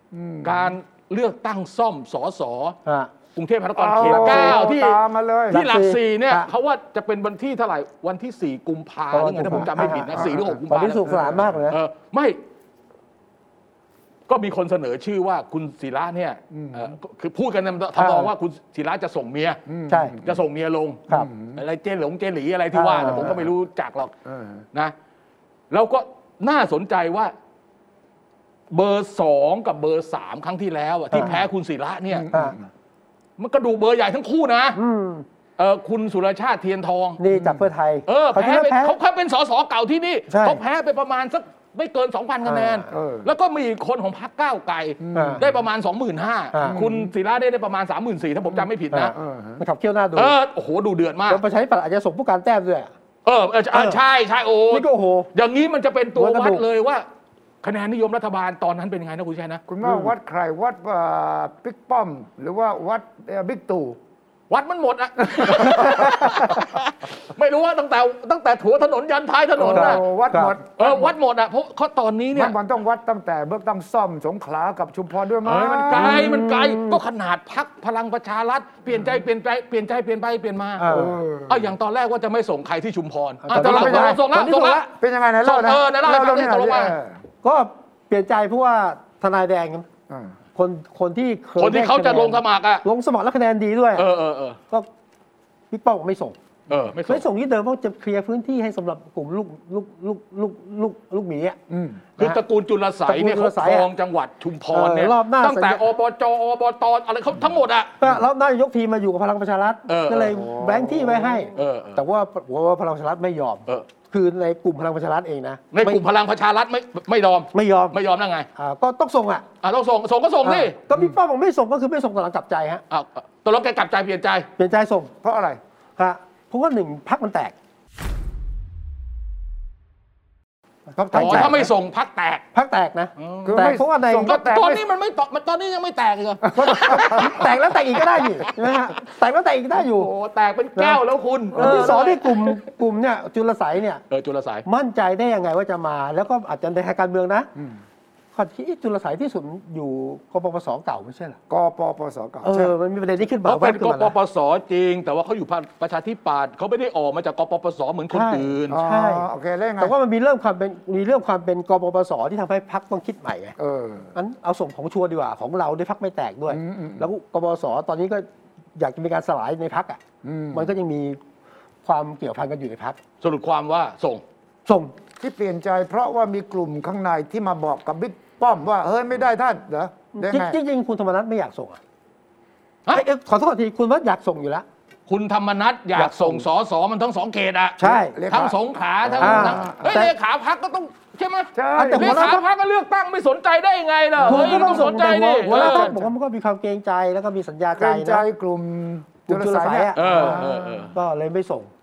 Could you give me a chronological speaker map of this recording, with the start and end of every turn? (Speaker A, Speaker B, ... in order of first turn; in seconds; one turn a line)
Speaker A: 0.1-0.7
Speaker B: 0.4-2.8
Speaker C: 2.9-3.1
Speaker B: 3.3-12.4
Speaker A: 3.8-5.6
Speaker C: 4.0-4.7
Speaker C: 5.5-6.5
Speaker C: 9.1-11.8
Speaker A: 9.8-11.3
Speaker B: 14.3-19.6
Speaker A: 16.5-16.9
Speaker C: 18.0-18.3
Speaker A: 19.7-20.3
Speaker C: 19.9-20.1
Speaker B: 20.2-24.1
Speaker A: 21.1-21.6
Speaker C: 22.7-23.4
Speaker A: 24.2-24.6
Speaker B: 25.7-27.3
Speaker B: 28.7-32.3
Speaker C: 31.1-31.4
Speaker A: 32.1-32.7
Speaker B: 33.4-34.8
Speaker C: 34.7-35.2
Speaker B: 35.6-37.2
Speaker C: 37.2-39.0
Speaker A: 37.3-37.7
Speaker B: 38.1-49.1
Speaker C: 40.3-40.6
Speaker C: 42.5-42.9
Speaker A: 42.9-43.3
Speaker A: 45.0-45.5
Speaker C: 45.1-45.4
Speaker C: 46.5-46.8
Speaker A: 46.6-47.1
Speaker A: 48.5-49.6
Speaker C: 48.9-50.4
Speaker B: 50.1-51.4
Speaker C: 51.3-52.9
Speaker B: 53.2-57.1
Speaker C: 53.7-54.0
Speaker C: 54.7-55.3
Speaker C: 56.1-56.6
Speaker B: 57.6-59.6
Speaker A: 59.7-64.0
Speaker C: 59.8-60.1
Speaker B: 64.5-70.0
Speaker A: 65.2-66.5
Speaker A: 69.6-71.1
Speaker C: 69.7-70.5
Speaker B: 70.8-72.5
Speaker A: 72.3-76.3
Speaker B: 75.4-80.9
Speaker C: 75.9-77.0
Speaker C: 80.8-81.2
Speaker A: 80.9-81.7
Speaker B: 81.5-84.9
Speaker C: 83.4-84.8
Speaker A: 83.5-84.2
Speaker A: 84.9-87.2
Speaker B: 85.4-87.0
Speaker C: 87.4-89.9
Speaker C: 90.5-94.1
Speaker B: 91.6-92.8
Speaker B: 94.0-94.6
Speaker C: 95.7-96.4
Speaker B: 96.7-97.2
Speaker C: 97.1-101.6
Speaker A: 101.7-102.0
Speaker B: 102.2-108.0
Speaker C: 103.1-103.9
Speaker C: 104.7-105.8
Speaker C: 108.0-116.0
Speaker B: 109.9-110.4
Speaker A: 110.2-111.5
Speaker B: 111.5-112.0
Speaker B: 115.7-118.5
Speaker C: 117.5-118.0
Speaker C: 118.5-119.4
Speaker B: 119.6-120.8
Speaker C: 120.4-122.8
Speaker B: 122.9-124.5
Speaker C: 124.6-125.1
Speaker A: 125.2-125.6
Speaker C: 126.0-127.5
Speaker A: 131.0-131.7
Speaker C: 131.0-131.7
Speaker B: 131.1-132.4
Speaker C: 132.5-134.4
Speaker B: 133.2-133.7
Speaker A: 133.4-134.8
Speaker B: 134.2-138.5
Speaker A: 136.4-137.5
Speaker C: 136.6-140.1
Speaker B: 139.7-142.6
Speaker C: 140.8-141.0
Speaker A: 141.5-142.0
Speaker C: 141.5-144.0
Speaker B: 144.1-144.6
Speaker C: 144.6-147.5
Speaker C: 148.3-151.4
Speaker A: 151.5-152.7
Speaker C: 152.4-154.1
Speaker B: 153.4-158.8
Speaker C: 158.1-159.2
Speaker A: 158.7-159.9
Speaker C: 159.8-163.6
Speaker A: 163.6-164.1
Speaker C: 164.1-170.0
Speaker A: 166.5-167.1
Speaker A: 170.2-170.7
Speaker C: 170.5-171.2
Speaker C: 171.8-173.0
Speaker B: 173.2-174.2
Speaker C: 174.7-174.9
Speaker A: 175.2-180.6
Speaker C: 180.1-181.8
Speaker C: 182.9-184.6
Speaker B: 185.1-195.9
Speaker C: 185.9-186.4
Speaker C: 187.8-188.2
Speaker A: 187.9-190.0
Speaker C: 189.2-190.1
Speaker A: 191.6-192.3
Speaker C: 191.8-192.4
Speaker A: 194.2-196.1
Speaker C: 194.2-198.2
Speaker A: 197.8-200.9
Speaker C: 199.3-201.7
Speaker B: 199.9-200.9